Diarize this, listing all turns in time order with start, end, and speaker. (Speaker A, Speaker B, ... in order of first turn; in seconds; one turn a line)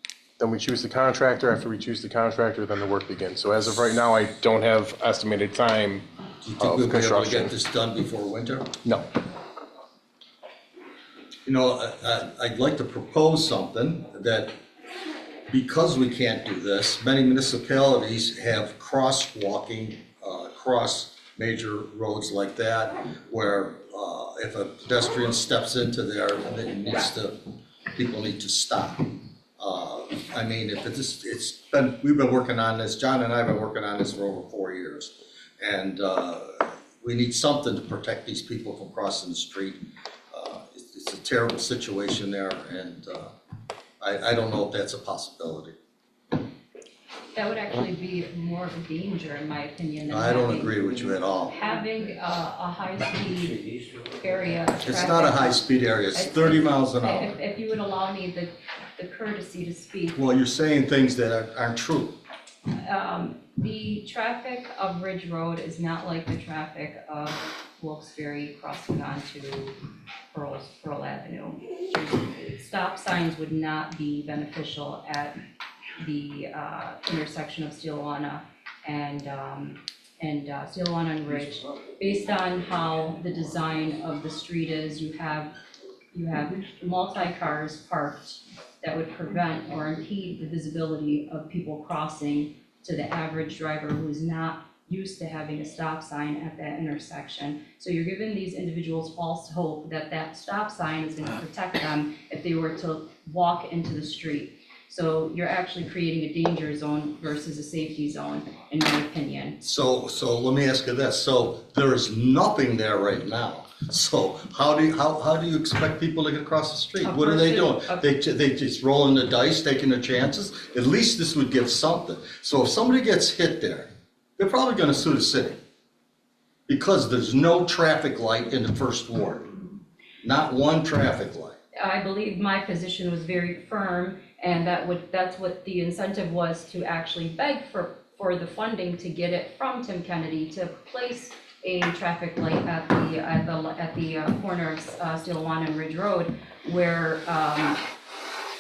Speaker A: 0.4-6.1
Speaker B: 6.4-8.7
Speaker A: 6.6-7.5
Speaker B: 11.5-14.5
Speaker B: 15.5-27.4
Speaker B: 27.9-39.8
Speaker B: 40.3-43.3
Speaker B: 44.0-45.8
Speaker C: 47.4-50.8
Speaker B: 50.1-51.5
Speaker C: 51.4-53.6
Speaker C: 54.2-60.2
Speaker B: 54.8-57.3
Speaker B: 60.1-62.2
Speaker C: 62.7-69.8
Speaker C: 70.3-75.4
Speaker C: 76.0-85.5
Speaker C: 86.1-109.6
Speaker B: 109.6-125.6
Speaker C: 117.0-118.0
Speaker B: 126.7-129.5
Speaker B: 130.2-131.6
Speaker C: 131.8-147.8